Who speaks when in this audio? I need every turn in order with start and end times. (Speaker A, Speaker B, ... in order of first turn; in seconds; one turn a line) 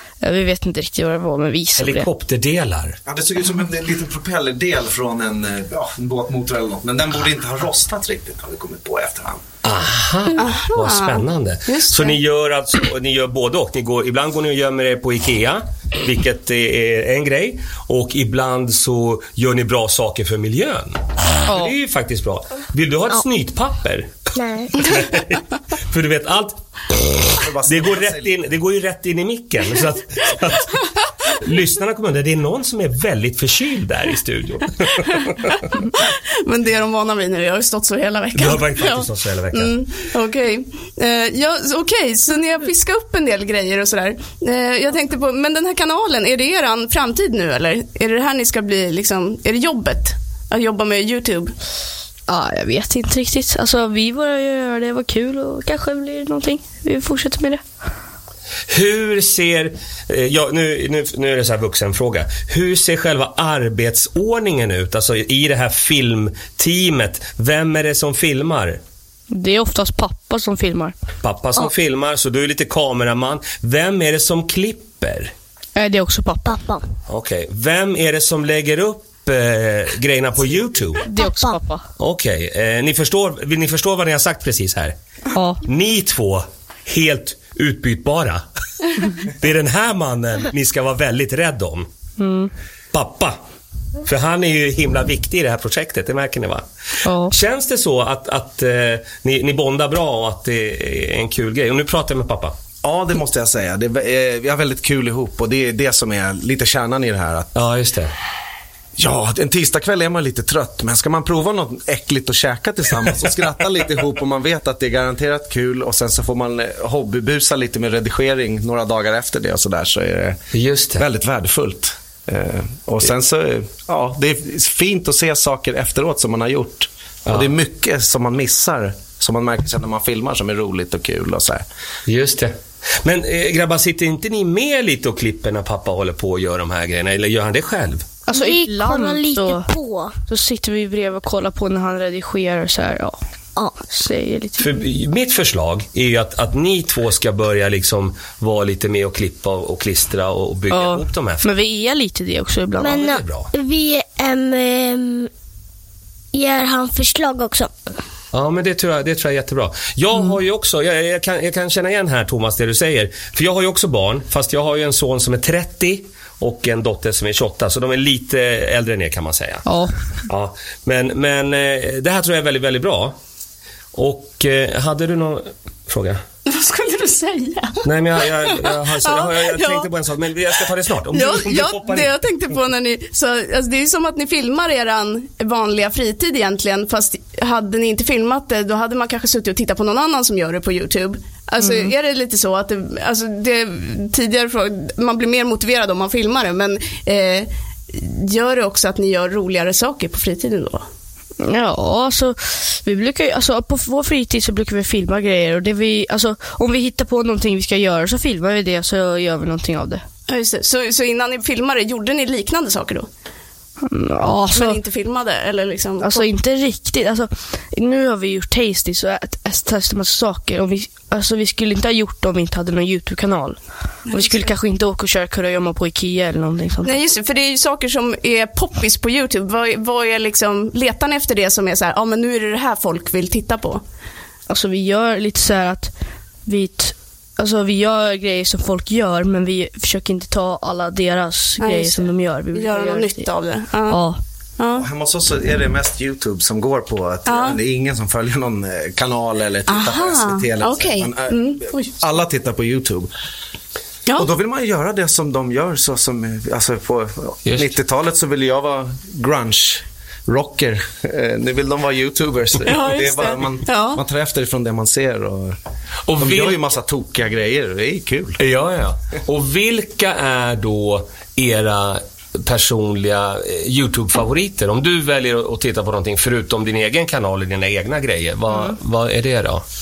Speaker A: 0.2-2.1
Speaker B: 1.8-3.0
Speaker C: 3.1-9.4
Speaker B: 9.6-24.1
Speaker D: 10.4-12.2
Speaker A: 21.5-21.7
Speaker E: 24.4-24.9
Speaker B: 24.8-35.6
Speaker C: 27.4-28.4
Speaker D: 35.5-51.5
Speaker B: 38.4-39.8
Speaker A: 52.3-57.6
Speaker B: 58.7-68.8
Speaker A: 69.3-70.9
Speaker B: 71.2-75.3
Speaker A: 75.8-76.6
Speaker E: 76.5-76.8
Speaker B: 77.1-81.1
Speaker A: 81.1-81.8
Speaker E: 81.2-81.6
Speaker B: 82.0-85.0
Speaker A: 85.3-85.6
Speaker B: 85.6-88.4
Speaker B: 89.0-91.9
Speaker A: 92.2-92.5
Speaker B: 92.9-93.4
Speaker B: 94.0-96.7
Speaker A: 97.0-97.3
Speaker B: 97.3-102.5
Speaker C: 102.8-107.5
Speaker B: 107.5-108.1
Speaker C: 109.0-120.4
Speaker B: 120.5-121.0
Speaker C: 121.0-131.7
Speaker B: 132.1-138.1
Speaker A: 138.3-139.7
Speaker E: 138.3-140.1
Speaker A: 140.3-143.2
Speaker E: 143.6-143.8
Speaker A: 143.9-144.7
Speaker B: 144.6-151.4
Speaker A: 150.7-153.1
Speaker E: 152.8-155.3
Speaker B: 152.9-153.5
Speaker E: 156.3-157.7
Speaker B: 158.3-169.7
Speaker A: 169.7-169.9
Speaker B: 170.3-173.2
Speaker B: 173.9-176.2
Speaker D: 176.5-179.9
Speaker B: 177.8-182.2
Speaker D: 181.1-200.8
Speaker A: 191.6-191.9
Speaker A: 201.4-210.0
Speaker D: 210.3-213.1
Speaker A: 213.9-214.8
Speaker D: 214.5-216.3
Speaker A: 216.0-227.0
Speaker D: 226.8-233.8
Speaker A: 234.5-235.9
Speaker A: 236.5-243.3
Speaker D: 241.6-244.0
Speaker A: 243.9-244.2
Speaker D: 244.6-244.9
Speaker C: 244.8-253.1
Speaker D: 247.3-247.6
Speaker D: 249.7-251.9
Speaker C: 254.2-265.6
Speaker B: 257.4-257.7
Speaker D: 262.6-264.0
Speaker B: 266.1-266.6
Speaker C: 266.2-268.4
Speaker B: 268.4-279.6